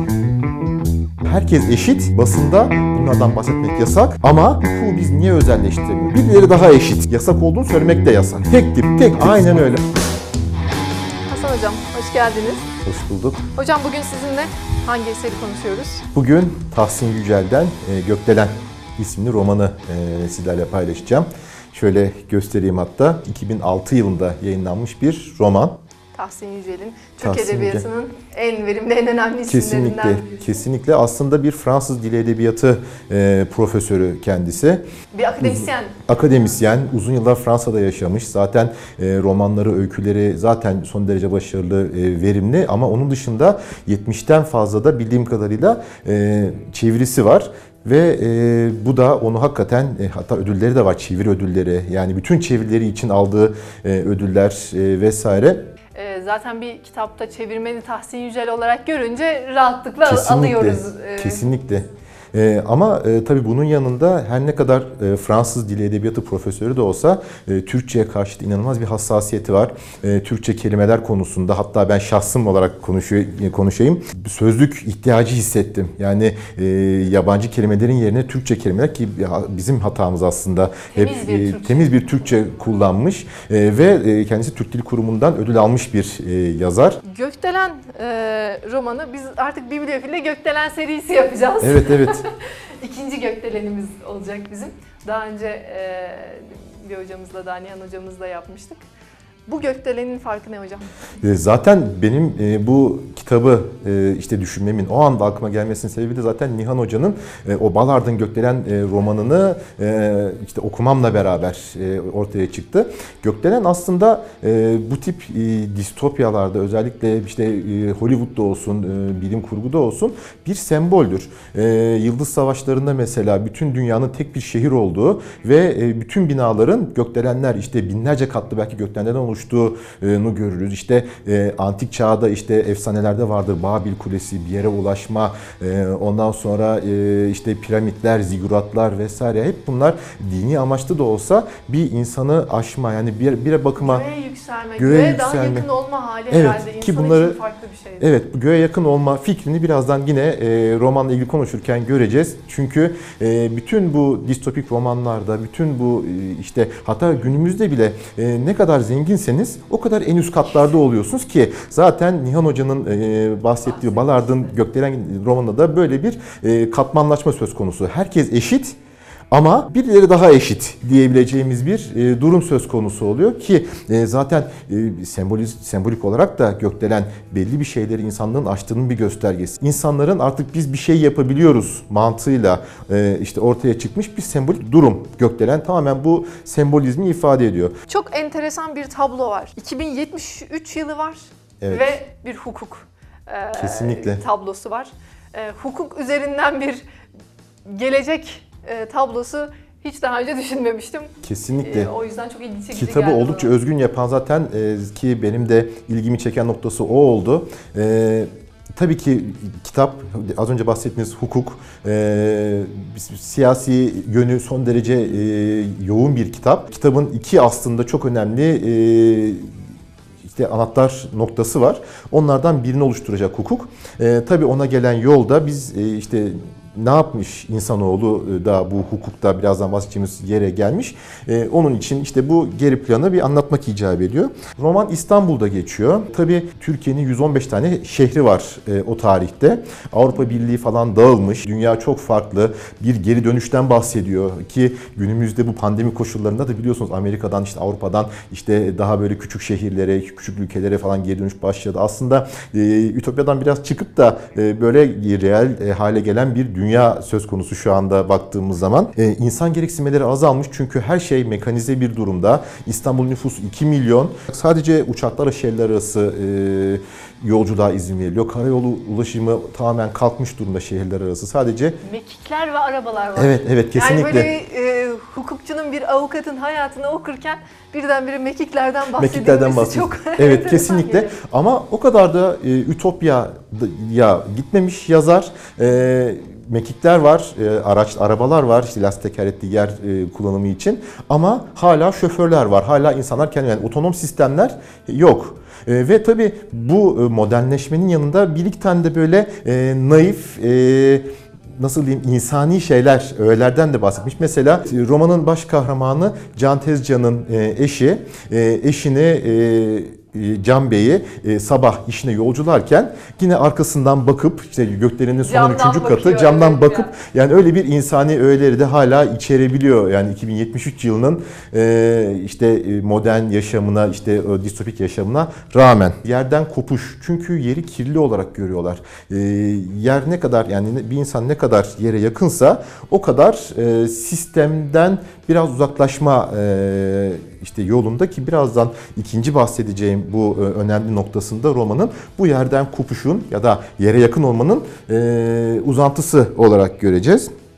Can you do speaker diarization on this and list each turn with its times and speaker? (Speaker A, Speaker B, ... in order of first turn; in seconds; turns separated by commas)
Speaker A: 1.2-9.8, Speaker B: 11.3-12.7, Speaker A: 12.8-13.5, Speaker B: 13.6-16.1, Speaker A: 16.1-25.8, Speaker B: 26.1-30.6, Speaker A: 27.2-27.8, Speaker A: 29.5-34.8, Speaker B: 35.1-36.0, Speaker A: 35.4-55.7, Speaker B: 55.9-61.4, Speaker A: 60.0-87.0, Speaker B: 80.9-82.1, Speaker B: 87.0-98.8, Speaker A: 91.6-92.2, Speaker B: 99.5-100.9, Speaker A: 101.2-144.0, Speaker B: 143.8-148.1, Speaker A: 144.8-145.7, Speaker A: 146.3-147.4, Speaker A: 148.0-168.8, Speaker B: 163.6-164.5, Speaker A: 169.3-187.8, Speaker B: 187.9-196.8, Speaker A: 191.6-192.0, Speaker A: 193.5-194.2, Speaker B: 197.6-203.5, Speaker A: 201.2-201.9, Speaker A: 202.7-219.5, Speaker A: 220.2-271.8, Speaker B: 271.8-281.1, Speaker A: 273.1-274.3, Speaker A: 279.0-347.3, Speaker B: 315.2-316.9